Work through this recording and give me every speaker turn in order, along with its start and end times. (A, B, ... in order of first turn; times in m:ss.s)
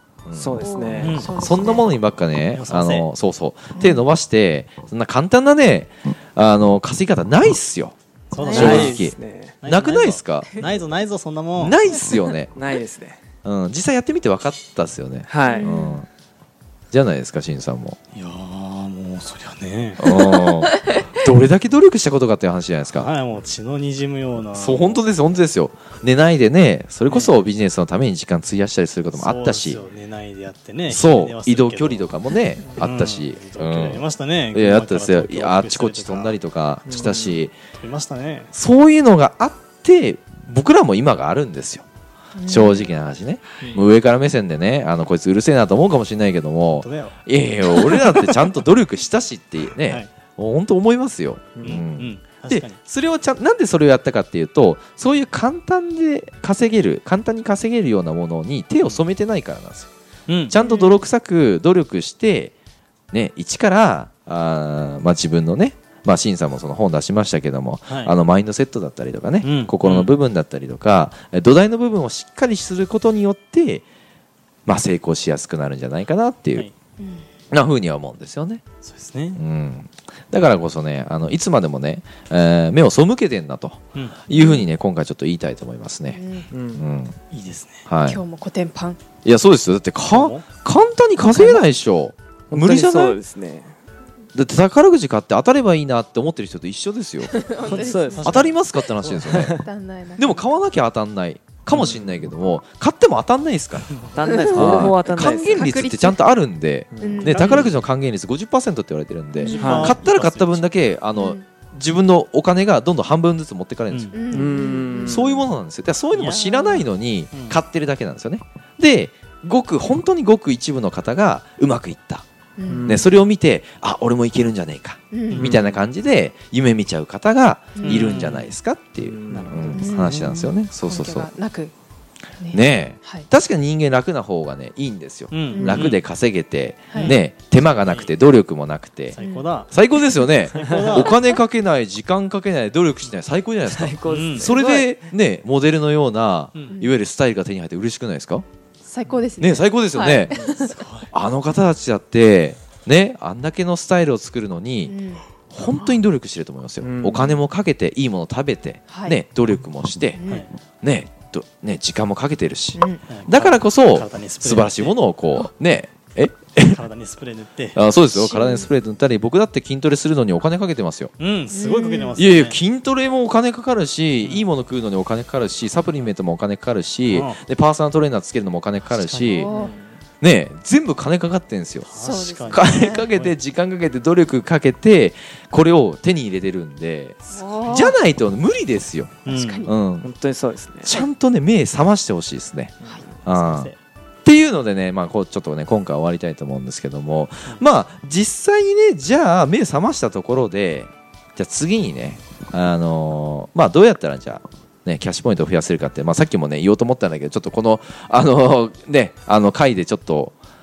0:00.2-0:07.9 A
0:00.3-0:01.2 B
0:00.6-0:01.9 C
0:01.0-0:01.3 D
0:02.5-0:03.1 D
0:03.7-0:04.0 C
0:08.3-0:09.0 D
0:08.4-0:08.8 C
0:08.5-0:09.6 B
0:08.5-0:10.5 A
0:09.6-0:11.8 D
0:11.6-0:12.5 A
0:12.5-0:13.2 B
0:13.4-0:16.1 A
0:15.3-0:15.7 B
0:15.4-0:16.0 C
0:16.9-0:18.0 A
0:18.1-0:20.1 D
0:20.0-0:23.1 A
0:20.1-0:21.0 C
0:22.9-0:25.0 D
0:24.5-0:29.8 A
0:27.1-0:27.3 D
0:29.1-0:32.1 D
0:30.9-0:37.6 A
0:32.8-0:36.4 D
0:36.9-0:37.4 B
0:37.8-0:38.5 D
0:38.5-0:41.8 A
0:42.4-0:42.9 C
0:42.5-0:59.9 A
0:46.7-0:47.1 D
0:47.8-0:48.4 D
0:51.6-0:51.8 B
0:51.6-0:52.8 D
1:00.3-1:00.5 D
1:00.5-1:02.5 A
1:00.6-1:01.0 C
1:03.1-1:13.8 A
1:07.9-1:08.1 D
1:09.4-1:10.1 D
1:14.7-1:16.7 A
1:17.0-1:17.3 C
1:17.5-1:18.6 A
1:18.9-1:19.4 D
1:19.4-1:26.2 A
1:23.9-1:24.2 D
1:24.4-1:24.6 C
1:26.1-1:26.5 C
1:26.5-1:26.8 B
1:26.7-1:27.2 A
1:27.3-1:27.9 D
1:27.8-1:28.2 A
1:28.0-1:29.0 C
1:29.2-1:33.2 A
1:30.1-1:30.4 D
1:31.2-1:31.6 C
1:32.5-1:33.8 B
1:34.3-1:39.6 A
1:37.3-1:38.3 C
1:37.6-1:38.5 B
1:38.1-1:38.6 D
1:39.0-1:39.6 B
1:39.6-1:40.4 C
1:40.2-1:44.0 A
1:41.7-1:42.1 B
1:44.1-1:45.7 B
1:44.4-1:46.2 C
1:44.5-1:54.2 A
1:46.9-1:47.7 B
1:47.0-1:47.5 C
1:49.4-1:49.8 C
1:49.5-1:50.7 D
1:49.6-1:50.0 B
1:51.1-1:51.4 C
1:53.9-1:54.1 D
1:54.1-1:55.2 C
1:54.3-1:55.5 B
1:55.0-2:02.2 A
1:56.1-1:57.6 D
2:02.6-2:03.1 C
2:02.7-2:03.0 B
2:02.9-2:11.3 A
2:05.1-2:05.4 C
2:05.4-2:05.8 B
2:07.8-2:08.1 C
2:07.8-2:08.4 D
2:09.0-2:09.7 B
2:09.3-2:09.8 D
2:09.7-2:11.7 C
2:12.4-2:13.3 C
2:12.5-2:19.2 A
2:15.3-2:16.0 D
2:15.5-2:15.9 C
2:16.9-2:17.2 D
2:17.8-2:18.1 D
2:19.1-2:19.7 D
2:19.2-2:19.5 C
2:19.7-2:28.4 A
2:20.5-2:21.2 D
2:23.6-2:24.9 B
2:24.1-2:24.6 D
2:28.8-2:30.8 C
2:29.4-2:30.4 A
2:30.3-2:30.6 B
2:30.7-2:31.1 D
2:31.1-2:34.9 A
2:34.9-2:36.0 C
2:35.5-2:40.2 A
2:36.8-2:37.4 B
2:38.9-2:39.2 C
2:40.2-2:40.5 C
2:40.8-2:46.8 A
2:42.7-2:43.0 C
2:43.1-2:45.0 D
2:46.6-2:47.8 D
2:47.7-2:51.1 A
2:48.1-2:48.7 C
2:51.2-2:52.6 D
2:51.5-2:52.2 C
2:52.2-2:59.5 A
2:57.1-2:57.4 D
2:58.8-2:59.5 D
2:59.3-2:59.7 C
2:59.5-2:59.9 B
3:00.2-3:10.1 A
3:01.8-3:03.4 D
3:02.0-3:03.0 C
3:07.3-3:08.0 C
3:09.3-3:09.7 D
3:09.3-3:09.7 C
3:10.0-3:10.9 B
3:10.8-3:13.7 A
3:13.2-3:13.8 D
3:14.2-3:30.4 A